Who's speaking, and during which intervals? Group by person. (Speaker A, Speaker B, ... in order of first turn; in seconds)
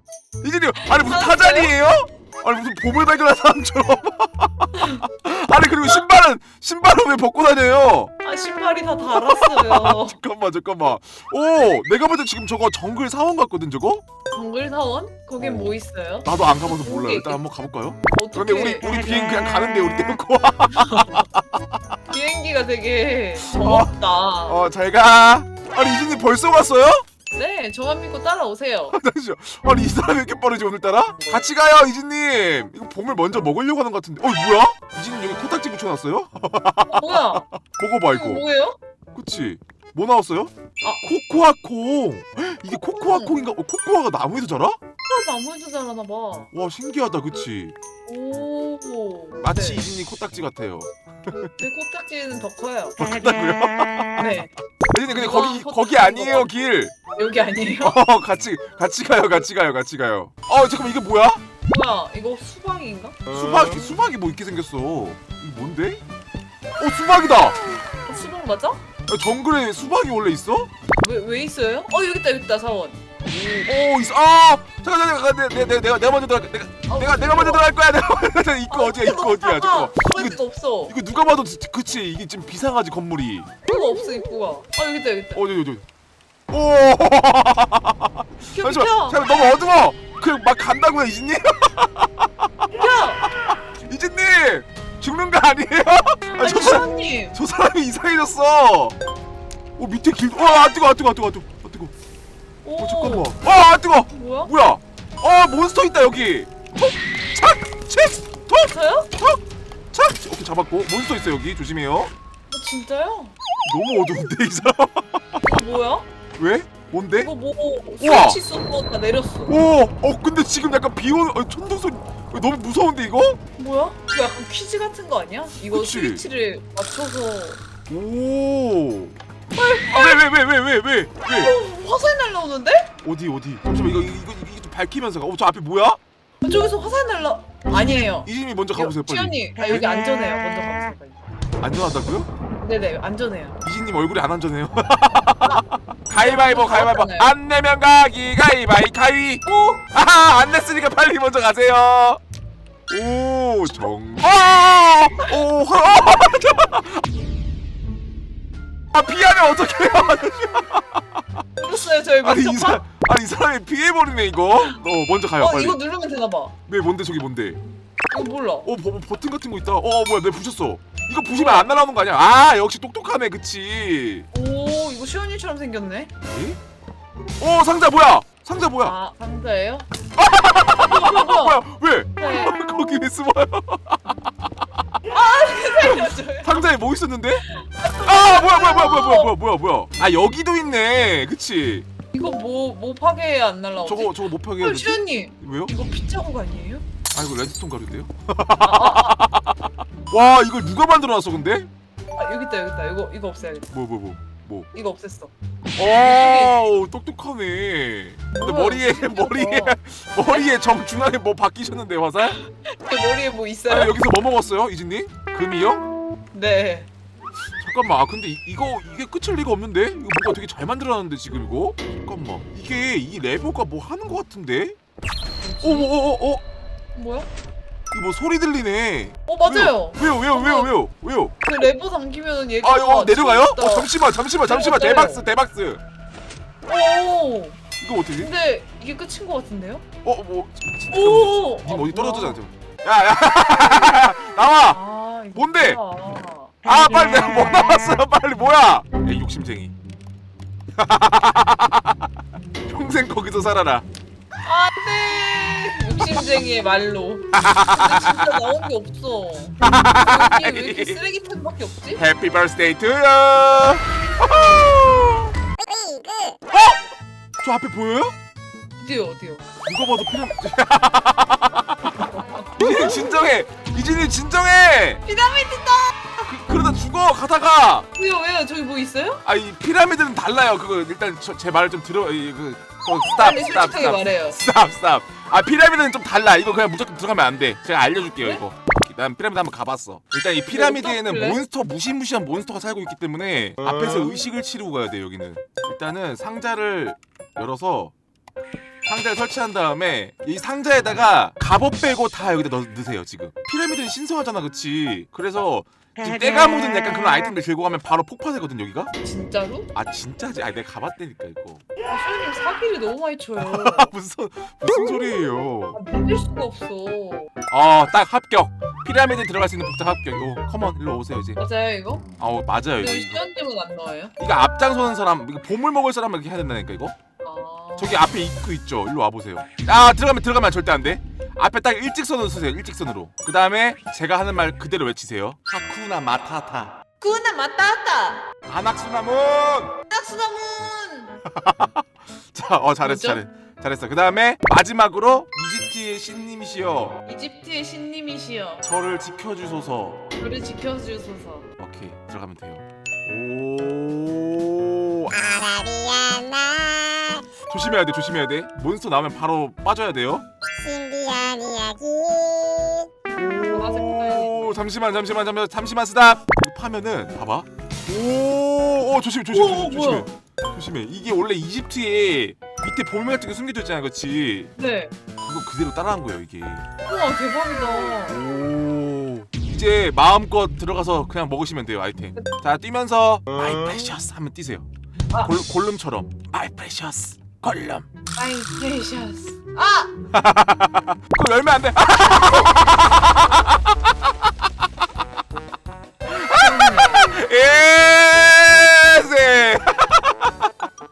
Speaker A: 0.4-8.1, 9.0-14.0, 15.4-21.6, 23.4-27.0, 28.9-38.4, 39.1-44.8, 46.5-47.7, 49.4-51.5, 53.0-54.3, 54.9-56.9, 57.8-61.4, 63.3-66.0, 66.8-67.6, 69.1-70.7, 73.2-83.5, 85.3-85.8, 86.5-98.9, 99.8-101.9, 102.8-109.4, 109.9-112.1, 113.6-115.6, 116.4-117.3, 118.0-118.4, 119.5-123.4, 125.6-126.2, 127.9-129.1, 129.8-131.5, 133.0-136.0, 138.2-139.9, 141.6-142.3, 143.6-152.2, 152.9-157.0, 158.9-161.4, 162.2-165.8, 166.7-167.6, 168.6-174.3, 176.3-176.6, 177.4-178.9, 180.1-184.5, 185.7-187.4, 188.0-191.8, 193.8-195.7, 197.1-201.7, 203.7-204.7, 205.8-212.4, 213.7-215.8, 217.6-224.8, 225.6-226.4, 227.9-231.3, 232.6-235.8, 237.8-238.3, 240.0-244.8, 245.3-245.8, 246.6-249.7, 250.8-252.1, 252.7-253.8, 257.3-258.5, 259.6-261.0, 261.9-265.3, 266.5-268.1, 269.6-275.0, 276.1-277.9, 279.2-297.9, 298.9-308.9, 309.7-311.6, 313.4-315.8, 317.5-321.4, 322.2-323.2, 324.2-326.9, 327.8-336.7, 338.4-339.7, 341.2-347.0, 348.6-350.0, 351.6-355.6, 357.5-360.2, 363.1-374.5, 375.2-376.7, 378.0-387.9, 390.1-394.3, 396.1-400.5
Speaker B: 0.8-1.7, 4.8-5.1, 8.2-10.2, 14.3-17.4, 18.1-18.9, 20.8-21.1, 22.1-24.7, 27.3-29.0, 36.9-37.5, 38.1-38.8, 42.9-43.4, 45.1-46.5, 48.0-49.8, 51.5-53.0, 54.1-54.5, 55.1-56.5, 57.1-58.0, 61.7-63.2, 68.0-68.8, 71.0-73.1, 76.9-77.6, 78.7-80.9, 83.6-85.4, 88.5-89.2, 92.7-93.2, 96.3-97.3, 102.6-103.3, 104.1-104.5, 108.7-109.1, 112.5-113.3, 115.5-116.1, 117.2-119.6, 123.5-127.6, 129.5-130.2, 131.4-132.9, 136.4-141.2, 142.6-143.6, 146.1-147.3, 149.4-149.8, 161.6-162.8, 165.4-166.5, 168.1-168.7, 171.3-171.7, 174.3-176.1, 178.8-179.9, 180.8-181.6, 182.2-182.5, 185.1-186.6, 187.4-189.3, 192.1-196.8, 198.6-199.2, 202.1-203.7, 204.7-206.6, 208.3-209.8, 212.2-214.0, 216.3-216.9, 225.4-225.9, 226.9-227.3, 229.3-230.7, 231.4-235.2, 236.7-237.6, 238.2-239.8, 240.9-242.4, 244.7-246.6, 254.4-262.0, 268.8-269.4, 271.9-273.1, 275.0-275.9, 277.9-279.2, 283.1-284.4, 288.2-288.4, 290.5-291.4, 309.0-309.7, 311.9-313.9, 315.7-317.3, 321.4-322.0, 322.8-324.1, 327.2-328.0, 337.0-338.2, 339.9-341.1, 342.8-343.2, 347.1-348.6, 350.2-351.5, 363.4-364.6, 369.3-370.1, 374.6-374.9, 376.9-378.2, 388.1-389.9, 396.3-397.1
Speaker C: 355.6-357.1, 360.6-362.9